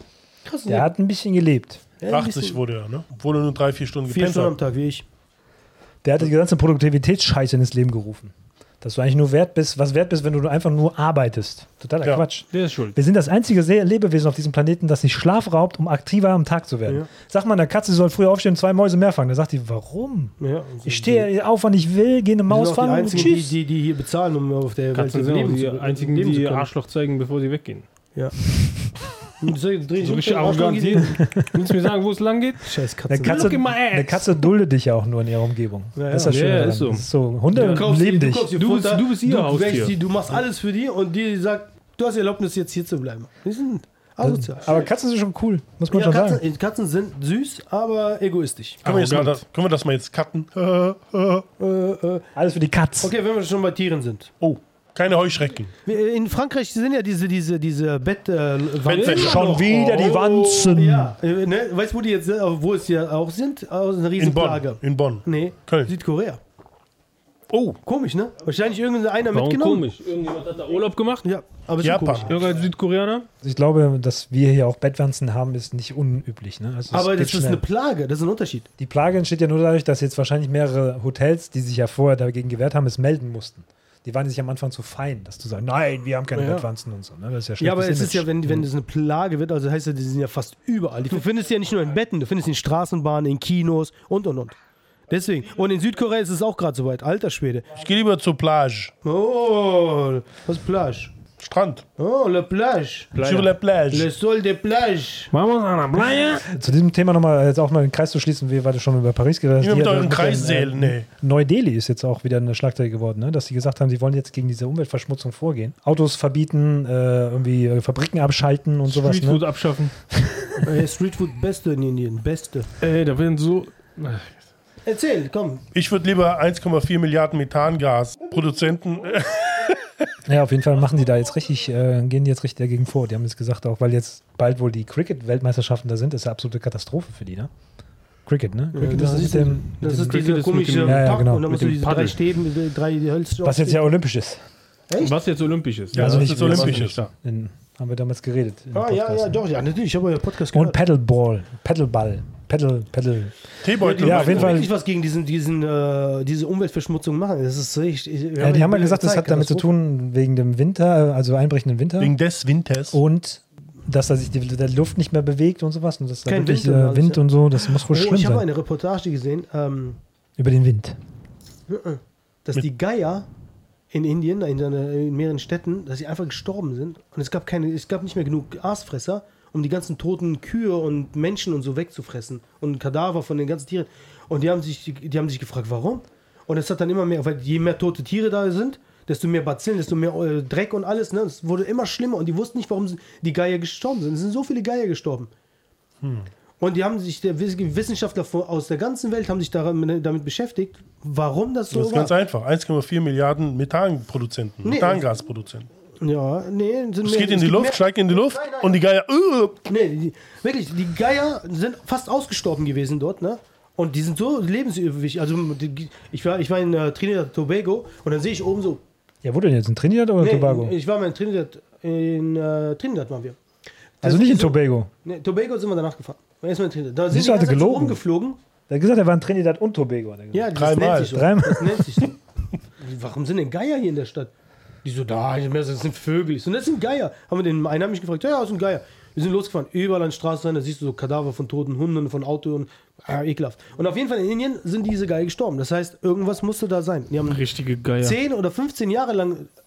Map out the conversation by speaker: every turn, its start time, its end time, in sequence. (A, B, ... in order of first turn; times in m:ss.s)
0:00.4-0:00.9 A
0:00.7-0:01.8 B
0:02.0-0:02.6 A
0:02.1-0:04.6 C
0:04.1-0:05.0 A
0:06.0-0:23.6 B
0:12.5-0:13.0 D
0:20.4-0:21.3 A
0:22.5-0:26.7 A
0:24.9-0:27.9 D
0:28.1-0:28.4 A
0:29.4-0:31.4 A
0:30.0-0:32.7 D
0:32.6-0:33.6 A
0:33.1-0:38.6 B
0:33.2-0:34.5 D
0:36.0-0:36.7 A
0:36.1-0:38.0 D
0:37.6-0:44.9 A
0:38.5-0:40.0 D
0:44.2-0:46.4 B
0:45.9-0:48.9 A
0:48.8-0:51.5 C
0:48.9-0:49.4 D
0:51.6-0:52.3 A
0:52.4-0:53.1 B
0:53.0-0:54.3 A
0:54.4-0:55.7 C
0:55.9-1:06.4 A
0:58.8-0:59.6 C
0:58.9-1:00.6 D
0:59.0-1:01.2 B
1:04.2-1:05.9 C
1:07.5-1:07.8 C
1:07.8-1:09.9 A
1:09.3-1:11.3 D
1:11.2-1:12.5 A
1:11.8-1:12.3 C
1:12.3-1:13.3 D
1:13.4-1:17.6 B
1:16.9-1:18.7 A
1:18.8-1:28.7 B
1:26.3-1:26.7 A
1:27.6-1:34.6 A
1:35.1-1:37.7 A
1:37.7-1:38.9 C
1:39.0-1:41.1 A
1:41.4-1:41.8 C
1:42.0-1:43.2 A
1:43.2-1:43.5 D
1:43.2-1:44.1 C
1:43.9-1:45.3 A
1:45.3-1:46.5 D
1:46.4-1:59.4 B
1:49.6-1:51.1 C
1:58.9-1:59.9 D
2:00.1-2:00.7 B
2:00.6-2:02.7 A
2:02.8-2:04.4 D
2:04.8-2:05.6 A
2:05.7-2:09.9 C
2:10.3-2:17.5 B
2:18.3-2:22.1 B
2:18.7-2:23.9 A
2:19.8-2:22.1 D
2:23.4-2:24.4 B
2:24.9-2:25.2 A
2:25.0-2:27.1 D
2:25.9-2:27.0 C
2:26.0-2:29.4 B
2:28.7-2:30.8 A
2:30.5-2:33.4 B
2:33.6-2:34.7 C
2:33.8-2:39.7 A
2:33.9-2:34.7 B
2:38.4-2:42.1 B
2:42.0-2:43.0 C
2:42.9-2:48.5 B
2:46.3-2:50.0 A
2:50.4-2:51.0 B
2:51.7-2:53.3 A
2:53.9-3:15.3 A
3:16.0-3:16.3 C
3:16.6-3:22.1 A
3:21.7-3:25.7 C
3:24.6-3:25.0 A
3:26.0-3:28.8 A
3:27.0-3:29.6 C
3:29.7-3:38.8 A
3:39.2-3:40.8 B
3:40.2-3:43.4 A
3:44.0-3:48.4 A
3:44.0-3:44.9 B
3:47.1-3:48.0 B
3:48.7-3:51.8 B
3:50.3-3:52.2 A
3:50.5-3:51.2 C
3:52.8-3:54.3 A
3:54.8-4:07.5 A
4:07.3-4:08.2 D
4:08.0-4:09.5 A